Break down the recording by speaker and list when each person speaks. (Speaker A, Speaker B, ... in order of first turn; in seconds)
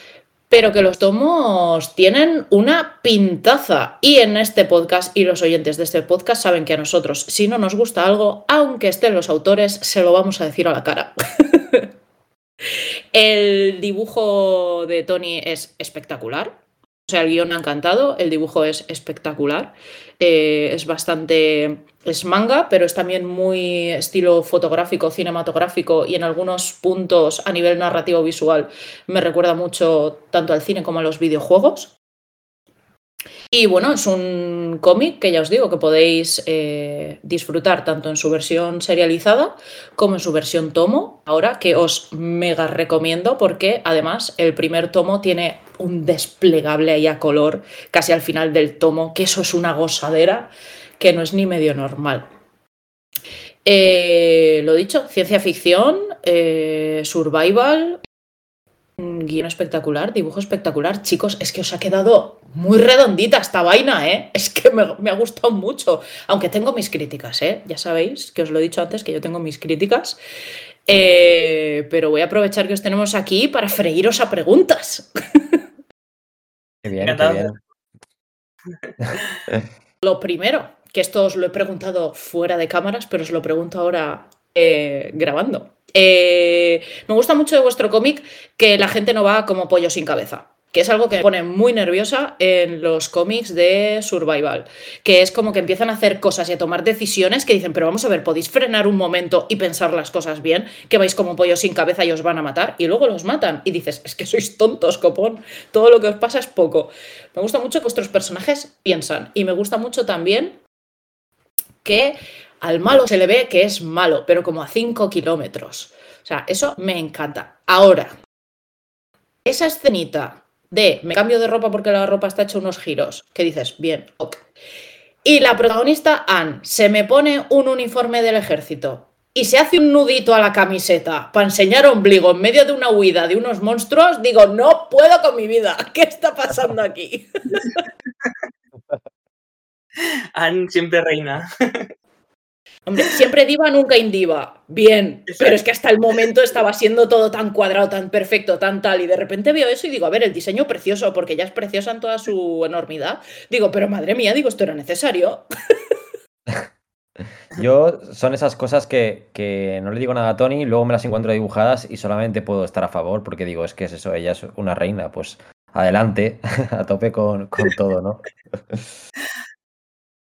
Speaker A: 0.5-11.9, 13.1-31.9, 33.5-52.3, 53.6-58.0, 59.0-70.2, 70.9-75.6, 80.0-110.6, 111.8-118.1, 119.4-124.4, 125.2-137.8, 142.9-155.4
Speaker B: 76.8-77.5, 79.0-79.6, 157.5-168.9
Speaker C: 77.0-77.5, 140.3-141.9